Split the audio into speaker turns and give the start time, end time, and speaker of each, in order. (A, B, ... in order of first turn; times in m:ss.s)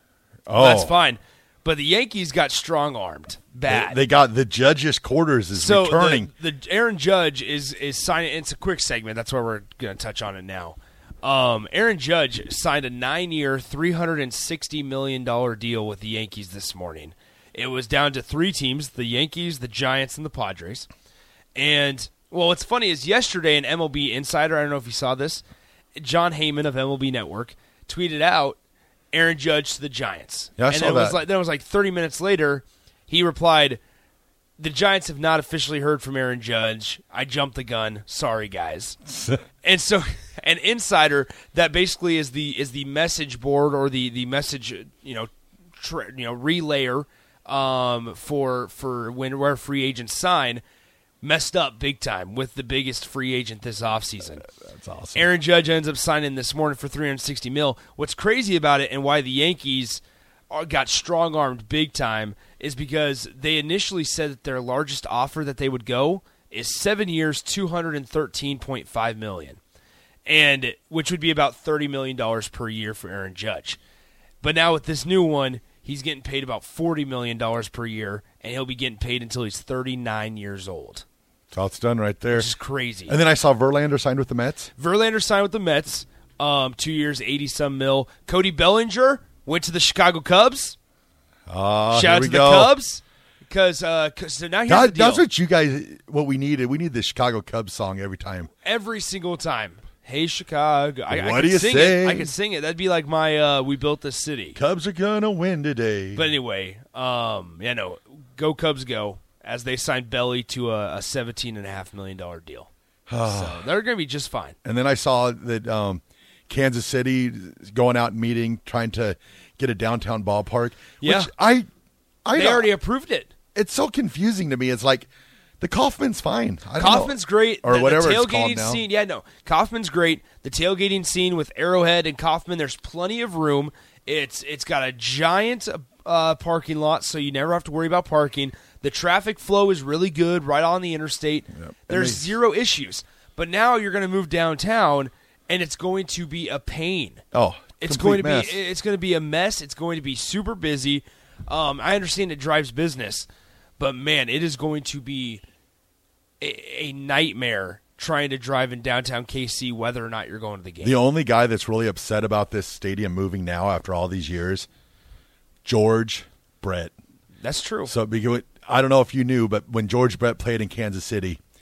0:00.5-0:01.0 A
0:00.5-0:04.0 B
0:03.6-0:06.3 A
0:05.5-0:20.9 B
0:21.5-0:25.4 B
0:26.0-0:28.6 B
0:29.1-0:33.8 B
0:30.6-0:31.2 A
0:34.6-0:39.0 B
0:39.6-0:50.6 B
0:51.2-0:54.5 B
0:54.5-0:55.3 A
0:55.1-1:09.6 B
1:10.2-1:13.8 B
1:14.4-1:21.0 B
1:21.5-1:22.5 A
1:22.3-1:23.2 B
1:23.1-1:24.7 A
1:24.8-1:30.8 B
1:31.5-1:32.7 A
1:31.9-1:35.2 B
1:34.7-1:38.5 A
1:38.6-1:44.6 B
1:41.1-1:42.3 A
1:44.5-1:46.3 A
1:46.2-1:52.7 B
1:53.1-1:53.7 A
1:53.2-1:54.6 B
1:54.6-2:01.7 A
2:01.0-2:01.3 B
2:02.2-2:02.7 A
2:02.3-2:03.3 B
2:03.5-2:05.1 A
2:05.6-2:08.8 A
2:06.8-2:27.2 B
2:21.5-2:22.3 A
2:27.3-2:28.6 A
2:27.8-2:35.4 B
2:36.4-2:41.0 B
2:40.8-2:44.7 A
2:45.6-2:46.9 A
2:47.4-2:47.9 B
2:47.8-2:51.4 A